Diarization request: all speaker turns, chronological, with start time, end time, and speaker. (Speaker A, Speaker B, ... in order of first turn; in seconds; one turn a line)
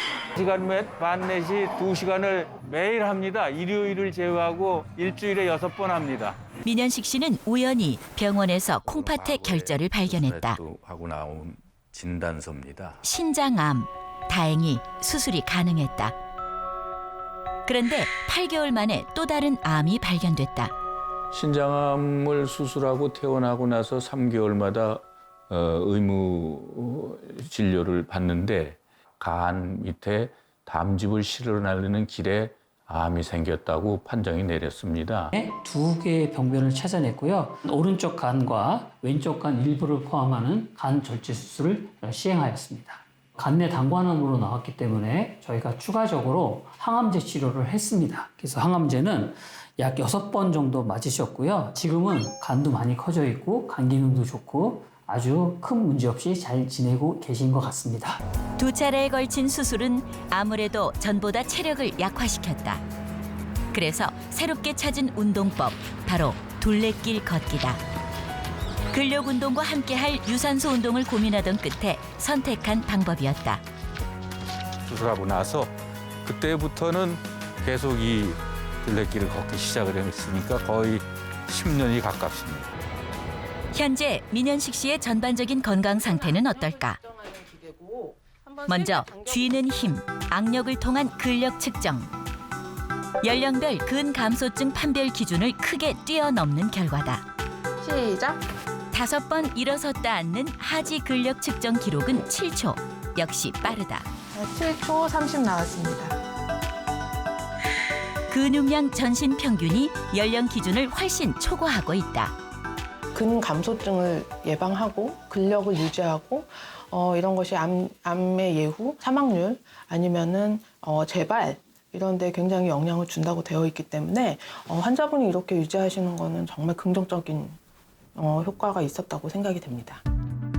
Speaker A: 0.4-6.4
Speaker B: 6.6-10.6
Speaker C: 8.8-13.0
Speaker B: 13.0-16.1
Speaker B: 17.6-20.7
Speaker C: 21.3-35.3
Speaker D: 35.3-58.2
Speaker B: 58.6-62.8
Speaker B: 63.7-67.8
Speaker B: 68.9-73.6
Speaker C: 74.9-75.7
Speaker C: 76.2-82.7
Speaker B: 83.7-87.0
Speaker E: 87.0-89.7
Speaker B: 88.7-92.1
Speaker B: 93.2-97.2
Speaker E: 97.8-98.4
Speaker B: 98.9-104.1
Speaker E: 104.3-106.1
Speaker B: 108.3-112.3
Speaker E: 113.1-127.6
Speaker E: 128.1-130.0